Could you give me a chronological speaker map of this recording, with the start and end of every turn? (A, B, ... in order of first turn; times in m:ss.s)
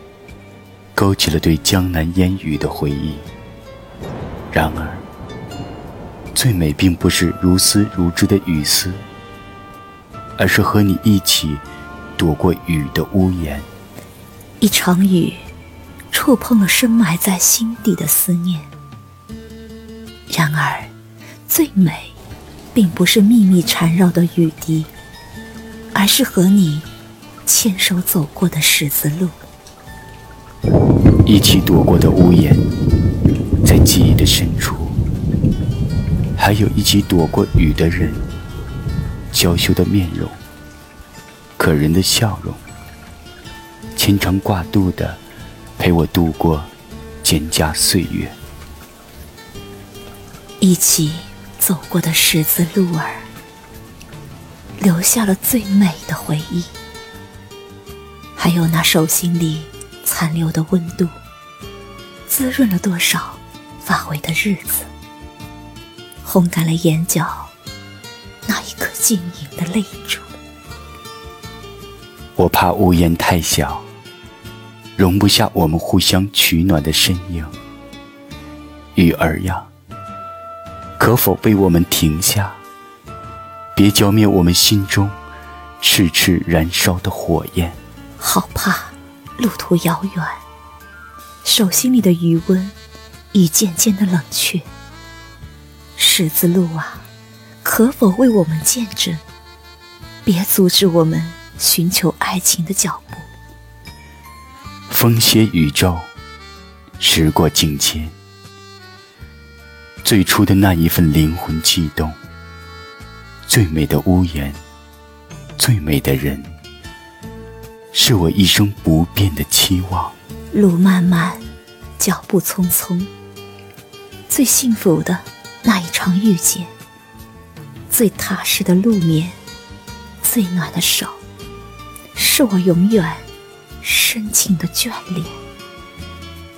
0:01.0-0:03.3 A
0:04.5-0:05.0 A
0:06.3-0:09.0 A
0:10.4-0:11.6 A
0:12.2-0:13.7 A
0:14.6-0:15.5 B
0:16.1-0:18.7 B
0:20.3-0:20.9 B
0:21.5-0:22.1 B
0:22.7-0:24.9 B
0:25.9-0:26.9 B
0:27.4-0:29.4 B
0:31.2-0:32.6 A
0:33.6-0:35.0 A
0:36.4-0:38.2 A
0:39.3-0:40.4 A
0:41.6-0:42.6 A
0:44.0-0:45.2 A
0:45.8-0:46.7 A
0:47.2-0:48.4 A
0:50.6-0:53.3 B
0:54.8-0:56.7 B
0:58.4-1:01.1 B
1:02.3-1:04.9 B
1:06.2-1:07.5 B
1:08.4-1:10.4 B
1:12.4-1:13.8 A
1:15.0-1:17.6 A
1:18.9-1:19.7 A
1:21.0-1:22.6 A
1:23.8-1:25.2 A
1:25.8-1:27.8 A
1:28.2-1:30.4 B
1:31.4-1:32.7 B
1:33.3-1:34.6 B
1:36.0-1:37.0 B
1:37.6-1:39.2 B
1:40.2-1:43.3 B
1:44.9-1:46.1 A
1:47.0-1:48.1 A
1:50.0-1:52.2 A
1:53.4-1:54.6 A
1:55.6-1:56.5 A
1:57.9-2:00.2 A
2:00.5-2:01.4 B
2:02.0-2:03.1 B
2:04.3-2:06.7 B
2:07.9-2:09.4 B
2:10.2-2:11.2 B
2:12.1-2:13.2 B
2:13.8-2:15.3 B